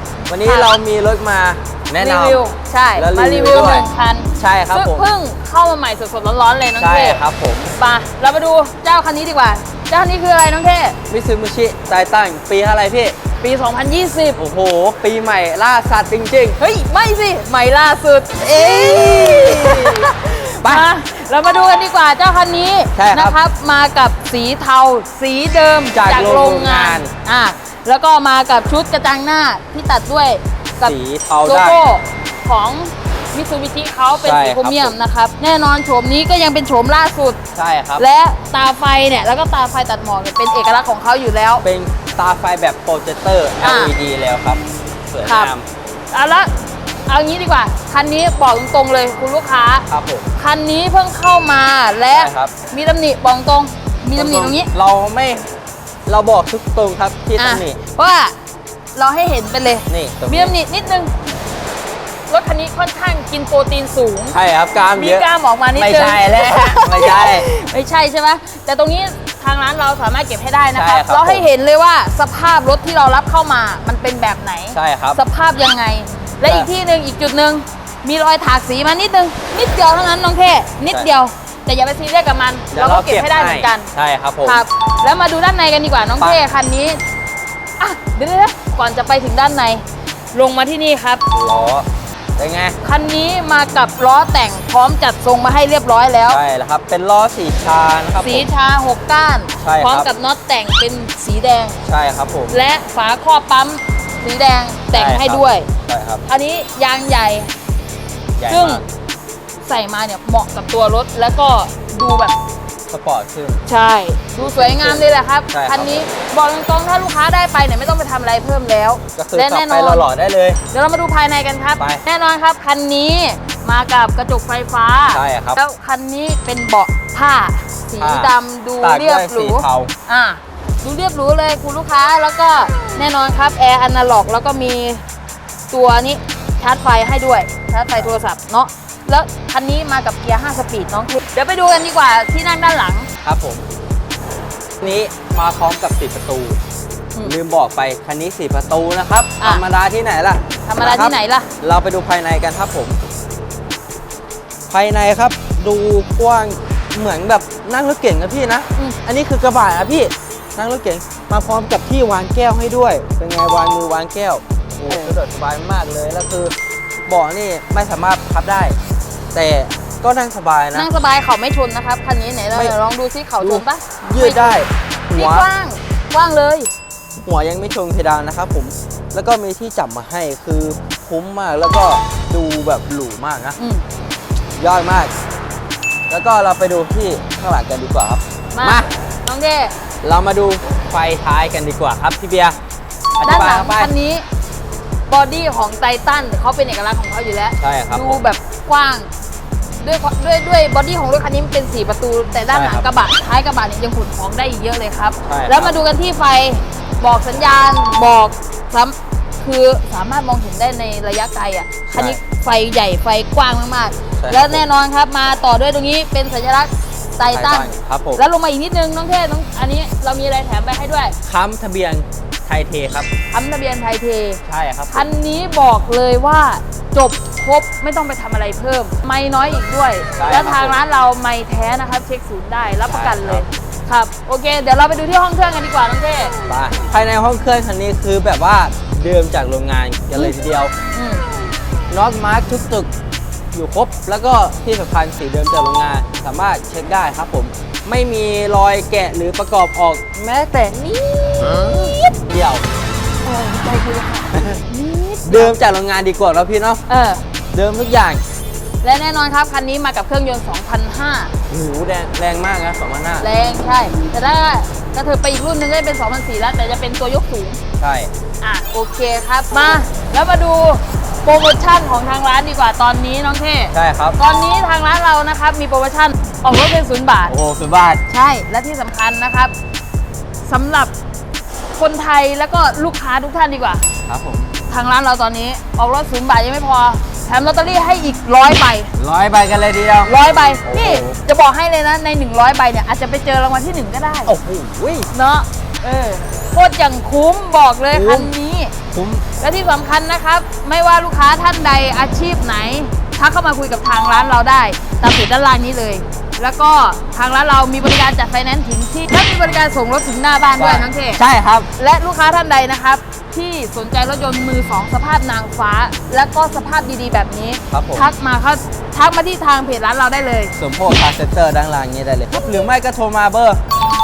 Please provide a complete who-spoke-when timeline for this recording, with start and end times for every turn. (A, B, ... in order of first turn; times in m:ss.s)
0:00.3-0:02.4 A
0:00.4-0:00.7 B
0:02.0-0:07.2 B
0:03.0-0:05.1 A
0:06.8-0:07.7 A
0:07.8-0:11.0 B
0:11.1-0:13.2 A
0:13.4-0:14.4 B
0:14.4-0:16.6 A
0:16.6-0:37.4 B
0:18.4-0:20.9 A
0:23.0-0:23.4 A
0:25.9-0:27.1 A
0:30.8-0:31.8 A
0:34.2-0:35.0 A
0:37.6-0:38.0 A
0:38.0-0:41.6 B
0:41.6-0:45.7 A
0:43.6-0:43.9 B
0:45.2-0:45.5 B
0:46.1-0:46.5 B
0:47.1-0:54.7 B
0:49.9-0:50.3 A
0:52.1-0:52.5 A
0:54.1-0:55.5 A
0:56.1-0:57.8 A
0:57.4-0:58.4 B
0:59.0-1:01.1 B
0:59.9-1:00.6 A
1:02.3-1:04.4 B
1:04.3-1:07.4 A
1:04.9-1:23.9 B
1:10.8-1:11.5 A
1:14.7-1:15.2 A
1:22.7-1:24.6 A
1:24.4-1:27.0 B
1:27.8-1:31.2 B
1:31.3-1:32.8 A
1:32.8-1:36.4 B
1:36.3-1:38.5 A
1:38.2-1:41.8 B
1:39.6-1:40.1 A
1:41.8-1:42.6 A
1:42.5-1:45.7 B
1:44.9-1:46.2 A
1:46.2-1:47.5 B
1:48.4-1:48.8 A
1:48.5-1:48.8 B
1:49.6-1:52.4 B
1:52.9-1:53.6 A
1:53.7-2:00.1 B
1:54.4-1:56.1 A
1:59.2-2:00.6 A
2:00.7-2:15.0 B
2:01.8-2:02.0 A
2:05.1-2:05.6 A
2:08.0-2:09.9 A
2:15.7-2:23.1 B
2:23.2-2:23.7 A
2:24.8-2:26.6 A
2:27.2-2:33.0 A
2:30.6-2:31.5 B
2:34.7-2:46.5 A
2:44.9-2:45.2 B
2:47.1-2:48.8 A
2:49.3-2:50.9 A
2:50.7-2:56.7 B
2:53.4-2:55.5 A
2:57.2-3:03.6 A
3:03.6-3:03.8 B
3:04.6-3:05.1 A
3:06.1-3:08.9 A
3:08.5-3:09.8 B
3:10.0-3:12.6 A
3:13.2-3:13.9 A
3:13.2-3:14.2 B
3:15.1-3:19.1 B
3:17.6-3:18.2 A
3:19.8-3:41.2 B
3:22.5-3:22.9 A
3:25.3-3:25.8 A
3:31.9-3:32.2 A
3:34.2-3:34.7 A
3:37.3-3:38.2 A
3:41.2-3:43.1 A
3:43.3-3:56.3 B
3:44.5-3:45.1 A
3:50.2-3:50.8 A
3:52.9-3:53.4 A
3:56.5-4:00.7 A
4:00.9-4:01.3 B
4:01.9-4:02.9 A
4:03.5-4:12.6 A
4:13.2-4:15.6 B
4:14.3-4:14.6 A
4:15.2-4:16.8 A
4:16.9-4:17.2 B
4:17.5-4:18.2 A
4:18.8-4:21.3 B
4:21.5-4:23.3 A
4:23.2-4:27.6 B
4:27.8-4:28.1 A
4:28.4-4:37.3 B
4:33.7-4:34.2 A
4:37.3-4:38.0 A
4:38.1-4:39.5 B
4:40.4-4:40.9 B
4:41.8-4:43.8 B
4:44.1-4:44.5 A
4:44.7-4:48.9 B
4:49.0-4:51.2 A
4:50.0-4:54.4 B
4:54.3-4:55.1 A
4:55.1-4:58.7 B
4:57.9-4:58.3 A
4:58.9-4:59.2 A
4:59.4-5:11.2 B
5:10.6-5:11.7 A
5:11.8-5:20.6 B
5:17.7-5:18.1 A
5:20.6-5:23.6 A